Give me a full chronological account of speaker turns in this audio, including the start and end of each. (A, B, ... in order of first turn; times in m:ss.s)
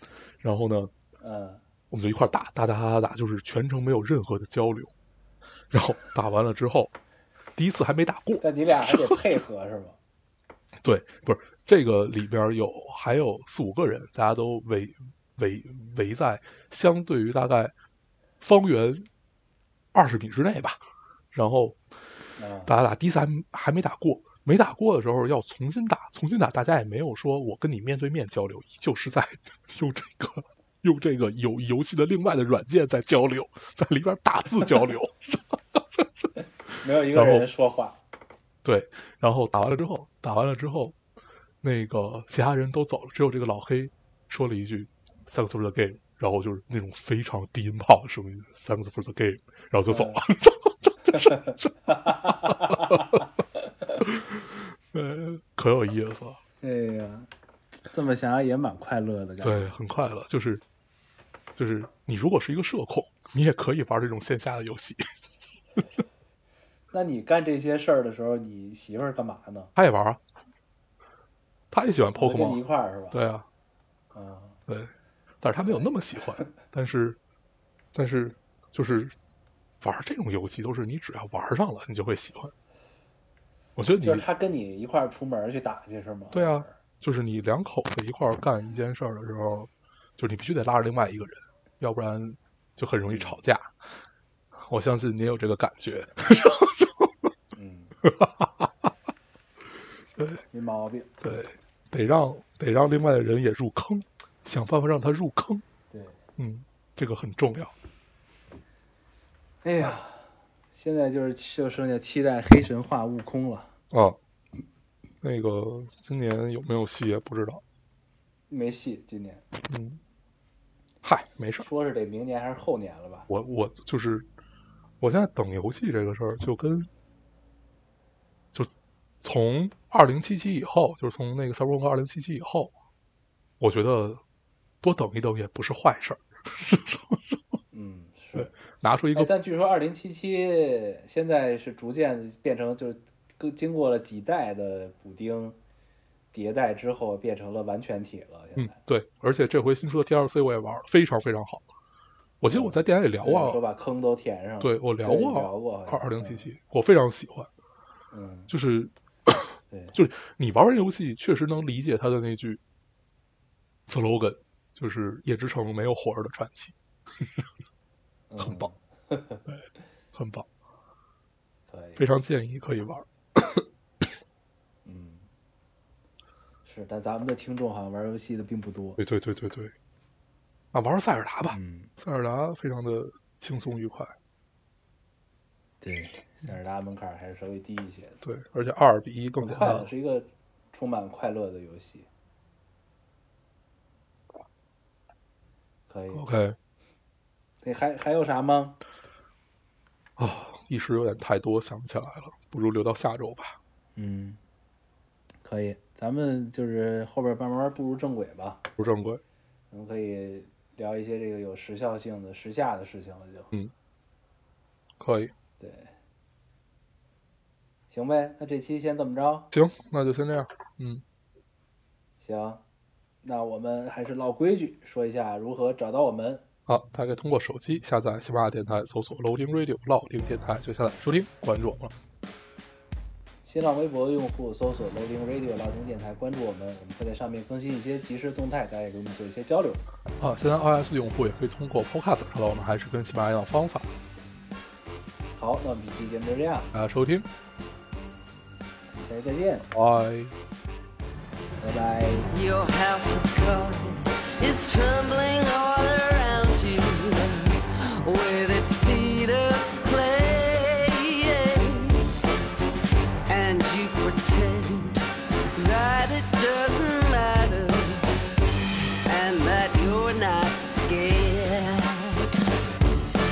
0:00.4-0:00.9 A
0:01.2-0:01.6 B
0:01.9-0:04.9 A
0:05.7-0:06.9 A
0:07.6-0:09.2 A
0:08.4-0:10.0 B
0:10.8-0:17.7 A
0:18.4-0:19.1 A
0:19.9-0:21.8 A
0:22.4-0:22.7 B
0:22.7-0:36.3 A
0:36.8-0:38.0 B
0:37.1-0:37.5 A
0:38.6-0:41.0 A
0:41.6-0:53.2 A
0:49.9-0:50.2 B
0:51.1-0:53.2 B
0:54.0-0:56.4 A
0:56.6-0:57.3 B
0:57.9-0:59.7 B
0:59.4-1:00.6 A
1:01.6-1:05.1 A
1:06.9-1:09.7 B
1:09.8-1:10.2 A
1:11.7-1:13.5 A
1:12.2-1:13.2 B
1:14.1-1:14.6 B
1:14.7-1:17.2 A
1:15.6-1:16.5 B
1:17.9-1:19.2 A
1:19.8-1:22.5 A
1:23.8-1:24.3 A
1:24.0-1:26.8 B
1:26.3-1:33.8 A
1:33.1-1:33.4 B
1:34.6-1:37.3 A
1:37.6-1:38.0 B
1:38.0-1:38.9 A
1:40.2-1:40.4 A
1:40.5-1:41.1 B
1:41.2-1:45.6 A
1:45.9-1:46.2 B
1:46.4-1:47.7 A
1:49.6-1:53.7 B
1:53.9-1:54.2 A
1:55.2-1:57.6 A
1:58.5-1:59.5 B
1:59.7-2:00.0 A
2:01.0-2:01.7 A
2:01.6-2:03.3 B
2:03.3-2:04.3 A
2:05.0-2:06.9 A
2:08.5-2:12.7 A
2:13.6-2:14.2 A
2:14.8-2:17.6 A
2:17.7-2:18.5 B
2:18.4-2:19.3 A
2:19.2-2:25.6 B
2:26.3-2:28.8 B
2:28.6-2:31.7 A
2:32.4-2:33.6 A
2:32.5-2:36.5 B
2:34.6-2:37.5 A
2:38.1-2:38.5 B
2:38.5-2:42.6 A
2:39.7-2:40.0 B
2:43.9-2:47.5 A
2:48.3-2:49.5 B
2:48.4-2:48.7 A
2:49.5-2:50.5 A
2:51.7-2:52.0 B
2:52.0-2:54.1 A
2:54.8-2:55.3 B
2:56.6-2:59.0 B
2:59.0-2:59.7 A
3:00.7-3:04.2 A
3:01.5-3:01.9 B
3:05.8-3:08.2 B
3:08.2-3:09.9 A
3:09.4-3:12.1 B
3:15.9-3:16.2 B
3:16.1-3:16.6 A
3:17.6-3:18.8 B
3:20.2-3:23.6 A
3:24.0-3:24.4 B
3:25.4-3:28.6 B
3:28.8-3:29.2 A
3:29.7-3:33.5 B
3:35.0-3:35.3 A
3:35.6-3:35.9 B
3:37.9-3:39.5 B
3:39.5-3:41.0 A
3:42.2-3:42.6 B
3:43.2-3:46.4 B
3:46.7-3:51.9 A
3:53.4-3:59.8 B
4:00.2-4:03.9 A
4:05.4-4:06.7 B
4:06.7-4:07.3 A
4:08.9-4:09.7 B
4:09.7-4:10.4 A
4:11.6-4:12.3 B
4:12.3-4:22.1 C
4:23.3-4:28.2 C
4:29.1-4:32.4 C